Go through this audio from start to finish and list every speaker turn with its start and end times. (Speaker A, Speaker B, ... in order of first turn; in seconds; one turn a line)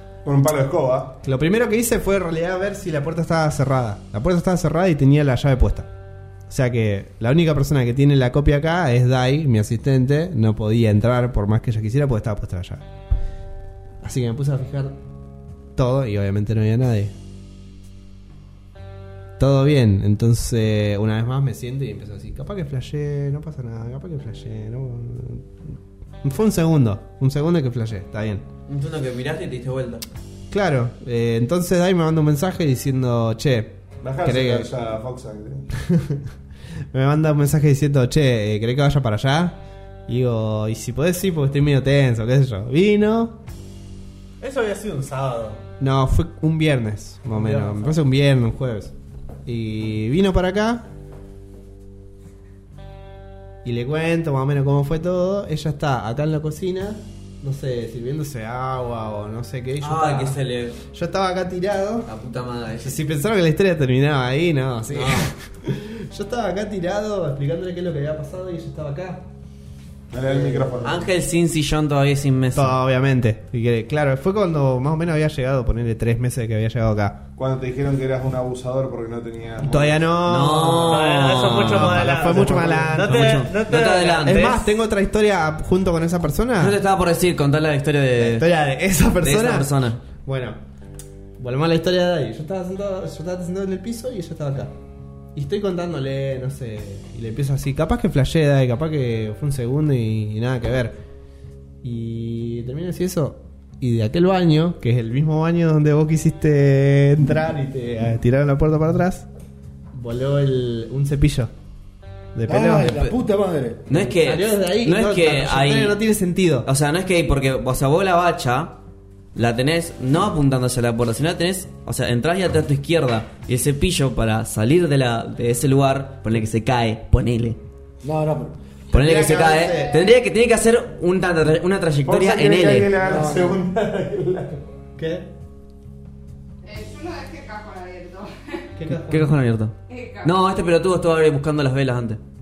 Speaker A: 0.2-1.2
Speaker B: 1.2-5.9
Speaker B: 6.5-12.8
Speaker B: 14.0-15.0
Speaker B: 15.8-17.1
Speaker B: 19.4-25.5
Speaker B: 26.2-28.4
Speaker C: 28.7-30.1
Speaker B: 30.5-34.7
Speaker A: 34.0-35.7
Speaker B: 35.8-36.2
Speaker B: 36.9-43.4
Speaker D: 44.4-45.6
Speaker B: 45.8-48.9
Speaker D: 47.3-48.0
Speaker B: 49.5-50.8
Speaker B: 53.6-62.1
Speaker C: 59.8-60.8
Speaker C: 62.0-63.0
Speaker B: 62.8-69.2
Speaker C: 64.9-65.3
Speaker A: 70.1-71.0
Speaker B: 70.2-70.8
Speaker C: 70.8-72.8
Speaker B: 72.5-77.2
Speaker A: 77.4-80.1
Speaker B: 79.6-83.5
Speaker C: 80.2-82.0
Speaker D: 80.9-84.7
Speaker A: 82.2-82.6
Speaker C: 83.3-84.6
Speaker B: 84.2-86.8
Speaker C: 86.6-88.5
Speaker B: 88.2-90.6
Speaker C: 89.2-90.0
Speaker B: 91.4-94.7
Speaker B: 95.3-101.0
Speaker B: 101.8-109.3
Speaker B: 109.9-111.5
Speaker B: 112.3-113.0
Speaker E: 112.5-114.1
Speaker C: 113.9-116.0
Speaker B: 114.1-116.7
Speaker C: 116.7-118.8
Speaker C: 119.3-127.6
Speaker E: 128.0-128.6
Speaker B: 128.9-130.0
Speaker C: 128.9-132.9
Speaker A: 132.1-134.6
Speaker E: 133.0-133.6
Speaker B: 133.1-133.4
Speaker B: 135.0-135.3
Speaker F: 136.6-138.7
Speaker B: 138.8-139.4
Speaker C: 138.9-142.2
Speaker F: 139.9-140.3